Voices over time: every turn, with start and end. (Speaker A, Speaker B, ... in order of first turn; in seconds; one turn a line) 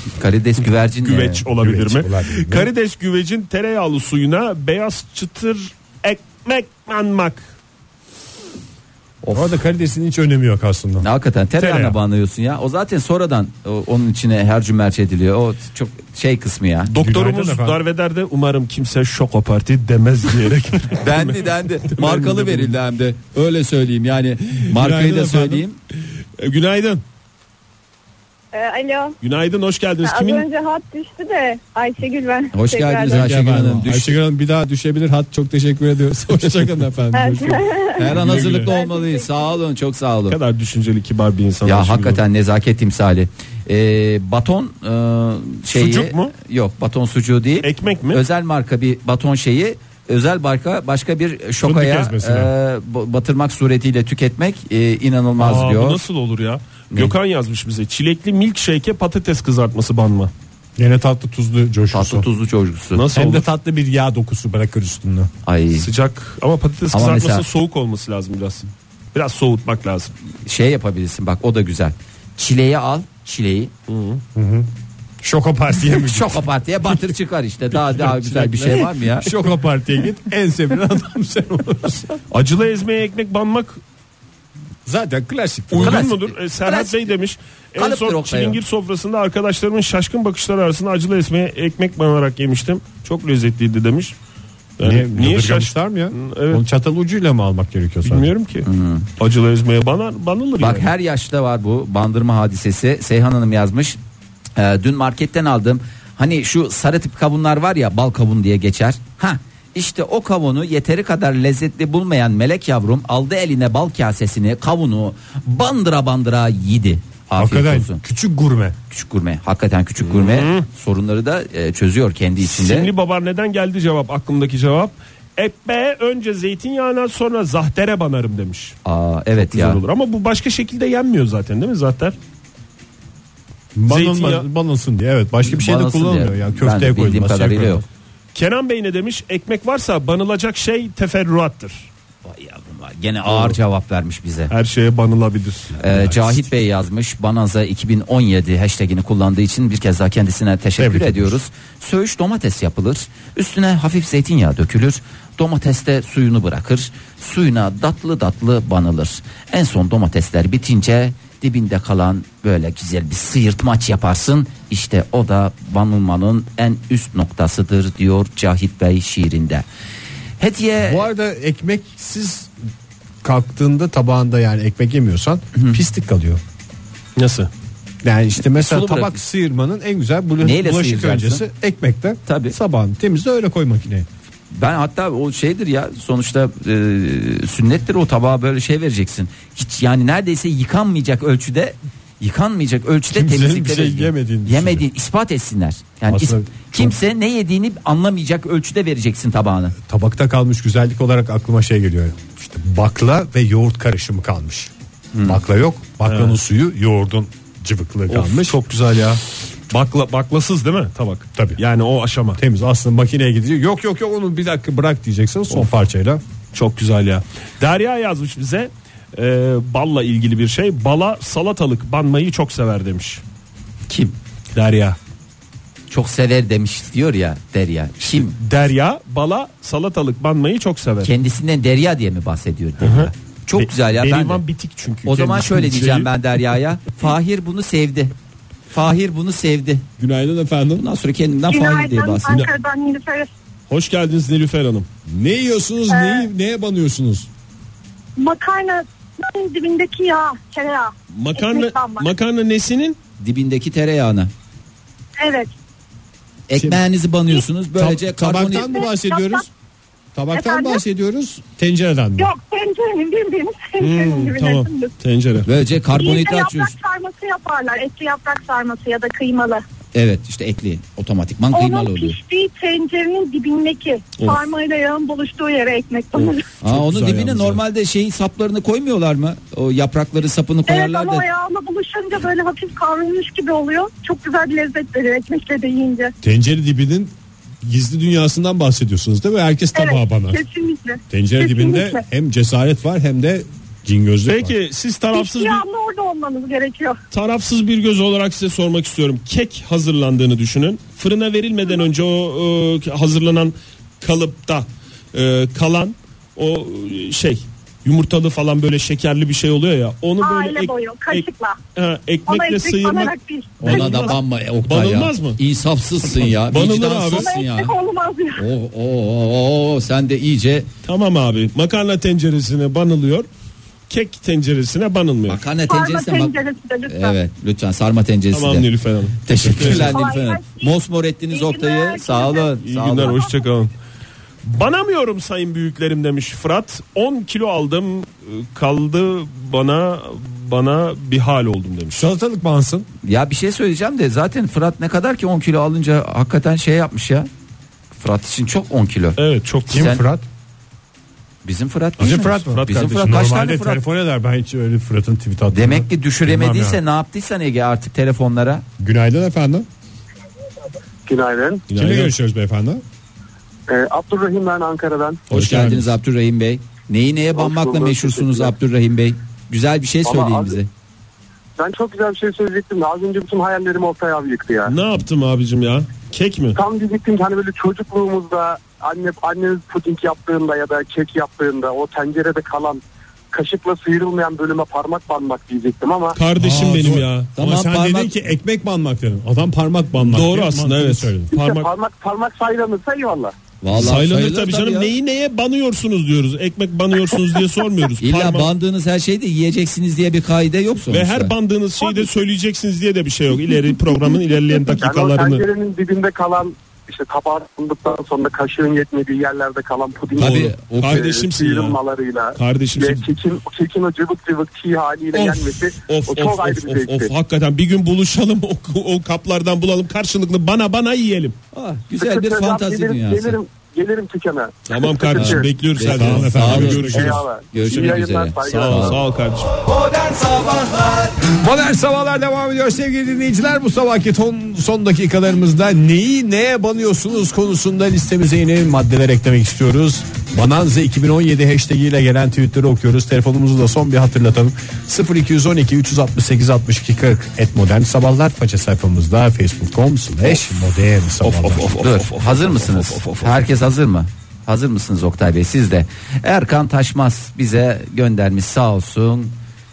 Speaker A: 0.2-1.4
Speaker B: 1.0-7.5
Speaker C: 1.6-2.7
Speaker A: 9.2-9.6
Speaker C: 9.3-11.1
Speaker A: 11.0-16.9
Speaker C: 11.6-11.9
Speaker B: 16.9-22.7
Speaker C: 16.9-17.8
Speaker A: 21.0-25.8
Speaker C: 24.7-25.6
Speaker B: 26.4-27.0
Speaker D: 28.5-29.1
Speaker B: 29.2-30.5
Speaker D: 30.0-33.3
Speaker A: 32.5-34.2
Speaker C: 33.1-37.7
Speaker D: 37.1-39.5
Speaker A: 37.9-40.4
Speaker B: 38.1-38.7
Speaker C: 38.3-38.6
Speaker B: 40.3-42.2
Speaker A: 41.6-56.0
Speaker B: 45.7-46.3
Speaker B: 47.6-48.2
Speaker C: 51.6-52.5
Speaker B: 55.4-60.3
Speaker C: 60.8-62.2
Speaker A: 61.9-63.1
Speaker B: 62.9-63.5
Speaker C: 63.1-65.3
Speaker A: 65.4-65.9
Speaker B: 65.7-70.1
Speaker A: 66.9-67.4
Speaker A: 70.4-73.7
Speaker B: 73.9-74.2
Speaker C: 74.3-74.7
Speaker C: 75.2-77.1
Speaker A: 75.9-79.3
Speaker C: 77.7-82.2
Speaker B: 82.3-83.8
Speaker C: 84.8-86.1
Speaker B: 85.7-94.1
Speaker A: 85.8-87.0
Speaker A: 87.8-88.6
Speaker B: 94.8-96.6
Speaker C: 94.8-98.3
Speaker B: 98.0-100.9
Speaker A: 98.6-99.1
Speaker A: 100.6-104.0
Speaker A: 104.5-118.0
Speaker C: 117.4-118.7
Speaker A: 118.9-122.9
Speaker B: 120.0-120.7
Speaker B: 122.4-128.8
Speaker A: 128.8-129.8
Speaker B: 129.4-132.2
Speaker C: 133.7-137.8
Speaker B: 133.9-134.4
Speaker A: 135.4-137.8
Speaker B: 138.3-141.9
Speaker A: 142.2-144.5
Speaker B: 144.5-145.7
Speaker C: 145.8-146.5
Speaker A: 145.8-169.6
Speaker C: 150.8-151.4
Speaker A: 170.4-171.1
Speaker C: 170.8-172.5
Speaker C: 173.2-176.4
Speaker B: 177.2-177.5
Speaker C: 178.0-184.1
Speaker A: 178.5-179.2
Speaker A: 180.4-181.4
Speaker A: 182.2-182.5
Speaker A: 184.5-199.7
Speaker C: 193.1-194.8
Speaker C: 196.1-196.9
Speaker C: 199.8-204.7
Speaker A: 205.1-205.4
Speaker C: 205.2-208.6
Speaker B: 206.0-206.4
Speaker B: 208.1-212.4
Speaker C: 212.3-216.2
Speaker B: 216.5-223.2
Speaker A: 223.9-224.2
Speaker B: 224.5-225.0
Speaker A: 225.9-228.3
Speaker B: 228.0-231.1
Speaker A: 231.0-234.4
Speaker B: 232.8-236.1
Speaker A: 235.0-238.1
Speaker A: 238.7-239.8
Speaker C: 240.0-240.8
Speaker A: 240.8-242.4
Speaker E: 241.5-243.3
Speaker B: 243.7-244.9
Speaker C: 245.1-247.3
Speaker E: 245.9-246.3
Speaker E: 248.2-252.1
Speaker B: 251.1-253.0
Speaker A: 253.2-254.3
Speaker E: 255.2-255.5
Speaker A: 256.5-258.8
Speaker C: 256.6-256.8
Speaker C: 257.8-259.5
Speaker E: 258.5-259.5
Speaker C: 260.1-262.3
Speaker E: 260.3-260.8
Speaker E: 262.2-264.9
Speaker B: 263.8-265.5
Speaker A: 265.4-266.7
Speaker E: 265.9-269.6
Speaker A: 269.9-272.2
Speaker E: 271.5-276.5
Speaker B: 276.1-277.6
Speaker A: 276.6-281.2
Speaker E: 280.7-286.1
Speaker C: 286.2-290.4
Speaker E: 289.7-292.0
Speaker C: 291.1-294.5
Speaker B: 294.2-295.6
Speaker E: 295.1-297.0
Speaker B: 297.1-315.4
Speaker E: 310.2-311.6
Speaker E: 312.3-314.1
Speaker A: 313.6-317.7
Speaker B: 316.1-317.3
Speaker E: 317.1-318.4
Speaker A: 318.4-320.7
Speaker B: 320.8-323.3
Speaker B: 323.9-325.4
Speaker A: 325.3-326.3
Speaker E: 325.7-327.1
Speaker A: 326.9-328.7
Speaker B: 328.3-330.0
Speaker A: 329.2-333.2
Speaker C: 329.4-329.9
Speaker E: 329.7-330.7
Speaker E: 331.3-333.4
Speaker B: 332.6-333.7
Speaker B: 334.4-342.1
Speaker C: 341.9-342.9
Speaker A: 343.0-347.3
Speaker A: 348.0-350.0
Speaker B: 349.2-349.9
Speaker C: 349.7-350.2
Speaker A: 351.4-353.8
Speaker C: 352.0-356.8
Speaker B: 352.5-353.3
Speaker A: 355.5-358.6
Speaker C: 358.8-359.6
Speaker F: 361.1-361.6
Speaker B: 361.7-362.1
Speaker C: 361.7-362.8
Speaker F: 363.7-365.2
Speaker C: 365.3-365.9
Speaker A: 365.3-370.7
Speaker F: 367.3-368.5
Speaker F: 370.0-370.6
Speaker F: 371.6-374.7
Speaker B: 374.6-376.6
Speaker F: 376.6-386.2
Speaker B: 386.1-387.3
Speaker C: 386.4-391.3
Speaker A: 387.4-388.1
Speaker B: 390.0-391.7
Speaker F: 391.3-393.3
Speaker A: 393.6-394.9
Speaker B: 393.7-398.5
Speaker A: 398.0-401.3
Speaker B: 400.9-405.4
Speaker F: 404.7-417.1
Speaker A: 410.1-411.1
Speaker B: 410.2-411.8
Speaker B: 412.3-413.1
Speaker B: 415.1-421.3
Speaker A: 421.5-423.4
Speaker F: 422.0-425.5
Speaker B: 424.7-429.5
Speaker A: 425.1-429.0
Speaker C: 425.9-427.2
Speaker F: 426.9-429.0
Speaker A: 430.1-430.7
Speaker C: 431.1-451.7
Speaker B: 451.2-453.4
Speaker A: 451.7-459.3